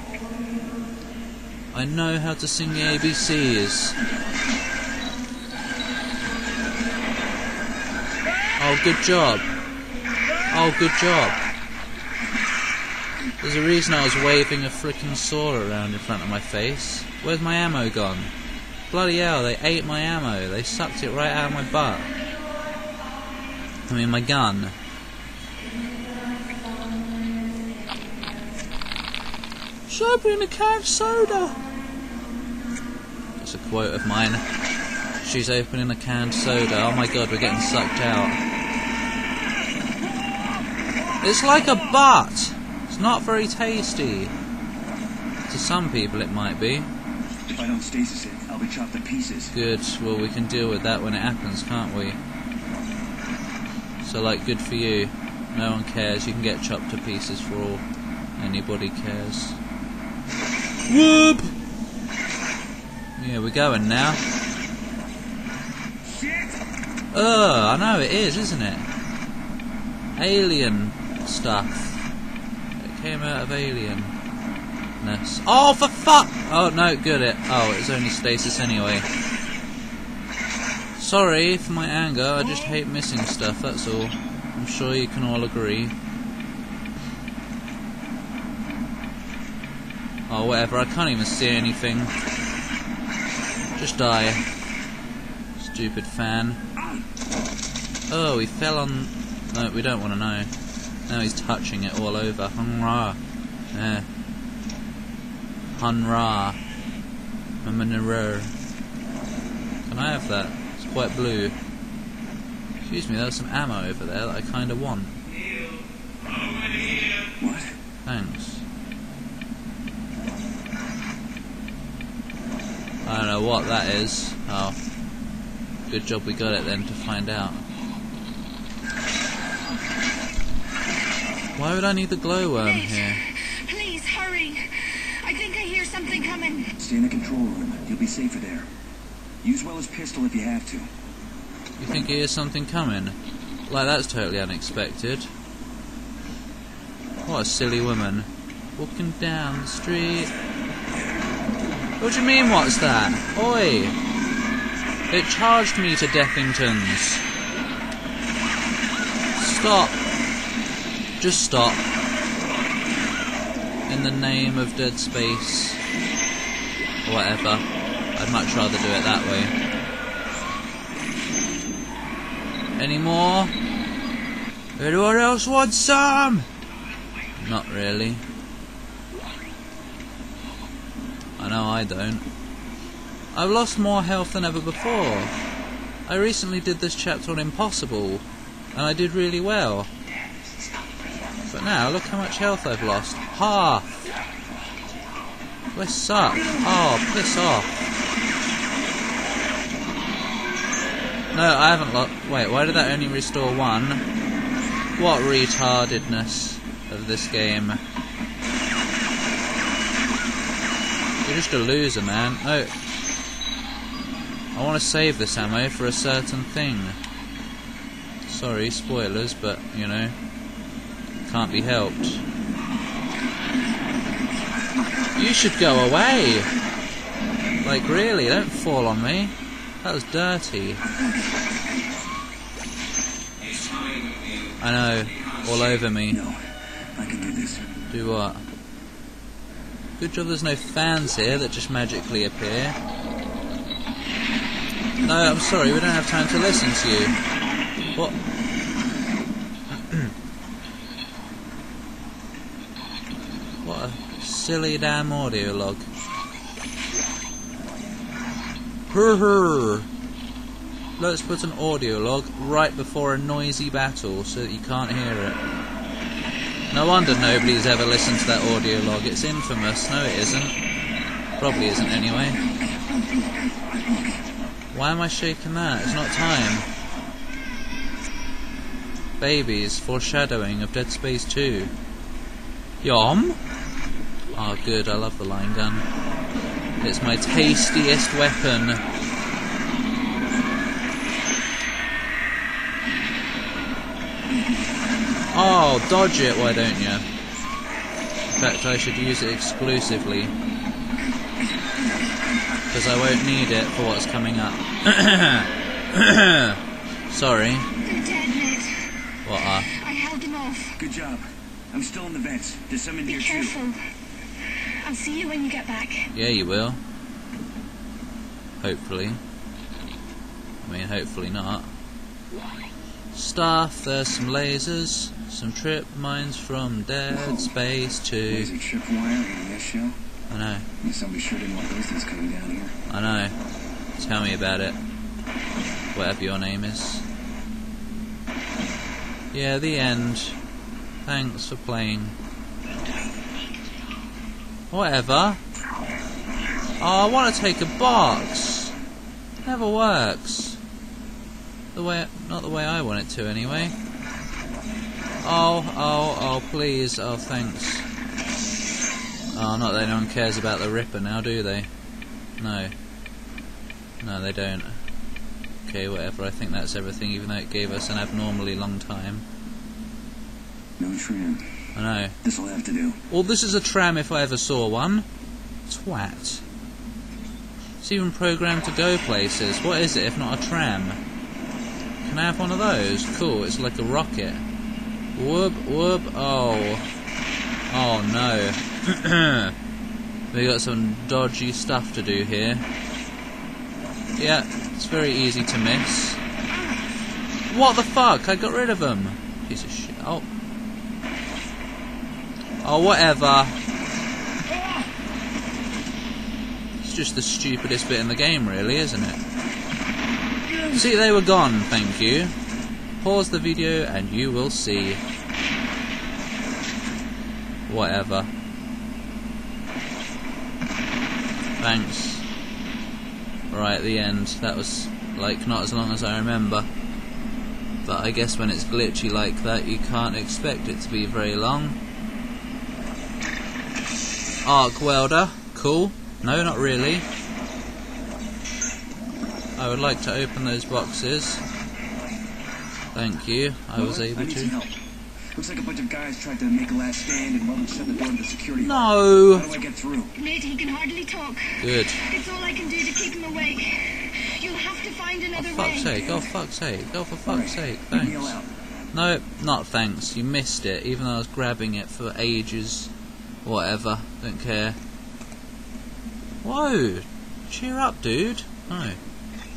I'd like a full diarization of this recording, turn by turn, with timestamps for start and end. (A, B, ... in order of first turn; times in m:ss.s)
0:01.7-0:04.0 A
0:08.6-0:09.5 A
0:10.5-0:11.4 A
0:13.4-0:18.3 A
0:18.9-0:22.1 A
0:23.9-0:24.7 A
0:29.9-0:31.6 A
0:33.4-0:34.4 A
0:35.2-0:38.4 A
0:41.2-0:44.3 A
0:45.5-0:46.9 A
0:47.5-0:49.5 B
0:49.5-0:52.2 A
0:54.0-0:57.8 A
0:58.4-0:59.6 A
1:00.9-1:01.5 A
1:03.2-1:04.2 A
1:06.0-1:06.6 B
1:07.1-1:08.9 A
1:10.2-1:12.1 A
1:12.8-1:14.1 A
1:15.0-1:19.0 A
1:21.0-1:25.9 A
1:30.3-1:32.1 A
1:33.8-1:34.4 A
1:35.6-1:36.6 A
1:38.1-1:40.5 A
1:41.1-1:43.2 A
1:43.7-1:44.0 A
1:45.7-1:46.6 A
1:47.6-1:48.5 A
1:49.9-1:51.5 A
1:52.8-1:55.2 A
1:57.4-1:57.7 B
1:58.0-1:58.6 A
2:03.0-2:04.8 A
2:05.9-2:07.6 A
2:11.6-2:13.2 A
2:12.6-2:16.7 C
2:16.8-2:18.7 B
2:19.4-2:20.9 B
2:21.8-2:25.3 A
2:27.2-2:30.3 A
2:32.0-2:34.0 A
2:35.1-2:37.2 A
2:39.4-2:40.0 A
2:41.2-2:41.8 A
2:43.9-2:45.8 A
2:47.0-2:47.6 A
2:48.2-2:49.5 A
2:52.8-2:53.5 A
2:54.8-2:56.5 A
2:57.4-2:58.2 A
3:01.4-3:02.2 A
3:03.3-3:05.3 A
3:06.1-3:09.9 A
3:11.4-3:14.1 A
3:15.7-3:17.7 A
3:21.3-3:24.0 A
3:25.0-3:27.8 A
3:31.2-3:32.7 A
3:34.5-3:37.0 A
3:38.2-3:40.2 A
3:41.2-3:42.2 A
3:45.1-3:46.5 A
3:47.6-3:50.8 A
3:54.6-3:56.2 A
3:56.1-3:56.4 B
3:56.9-3:57.6 B
3:57.9-3:58.4 A
4:00.0-4:02.8 A
4:05.0-4:07.2 A
4:09.7-4:10.1 A
4:13.6-4:15.9 A
4:18.9-4:19.9 A
4:21.0-4:25.4 A
4:26.7-4:30.6 A
4:31.4-4:32.4 A
4:33.7-4:34.2 B
4:34.7-4:36.7 A
4:39.2-4:41.7 A
4:42.8-4:43.4 A
4:44.3-4:45.8 A
4:46.8-4:48.8 A
4:55.3-4:57.0 A
4:58.3-5:00.3 A
5:02.7-5:07.7 A
5:07.8-5:08.7 C
5:09.2-5:09.7 A
5:09.7-5:10.8 C
5:10.8-5:13.6 B
5:13.1-5:13.8 C
5:14.8-5:16.1 C
5:16.1-5:16.8 A
5:18.6-5:19.2 A
5:20.6-5:21.7 A
5:23.1-5:28.5 A
5:27.1-5:27.5 B
5:28.3-5:30.0 B
5:30.3-5:30.7 A
5:30.8-5:32.7 B
5:32.9-5:33.4 A
5:34.0-5:34.8 A
5:35.9-5:37.0 A
5:39.3-5:40.4 A
5:41.0-5:42.2 A
5:44.7-5:45.4 A
5:46.8-5:48.7 A
5:49.4-5:50.6 A
5:51.7-5:53.7 A
5:55.2-5:57.8 A
5:59.3-6:01.7 A
6:02.4-6:02.7 A
6:04.0-6:04.8 A
6:05.6-6:09.2 A
6:10.8-6:11.4 B
6:11.7-6:12.2 A
6:12.2-6:13.0 B
6:13.1-6:15.0 A
6:15.7-6:16.4 A
6:17.8-6:21.0 A
6:22.0-6:24.4 A
6:25.1-6:26.8 A
6:27.7-6:29.5 A
6:30.3-6:32.6 A
6:34.2-6:36.2 A
6:37.5-6:40.2 A
6:42.6-6:43.6 A
6:46.8-6:49.2 A
6:50.6-6:52.3 A
6:53.0-6:55.0 A
6:57.7-6:58.3 A
7:01.6-7:02.2 A
7:03.5-7:06.7 A
7:07.8-7:11.8 A
7:14.4-7:17.0 A
7:19.6-7:21.4 A
7:22.9-7:24.5 A
7:23.7-7:24.8 B
7:25.3-7:30.2 B
7:28.6-7:29.5 A
7:30.1-7:36.1 C
7:31.6-7:32.1 A
7:35.3-7:38.4 A
7:37.2-7:38.5 B
7:38.9-7:42.9 A
7:43.4-7:44.8 A
7:46.4-7:49.0 A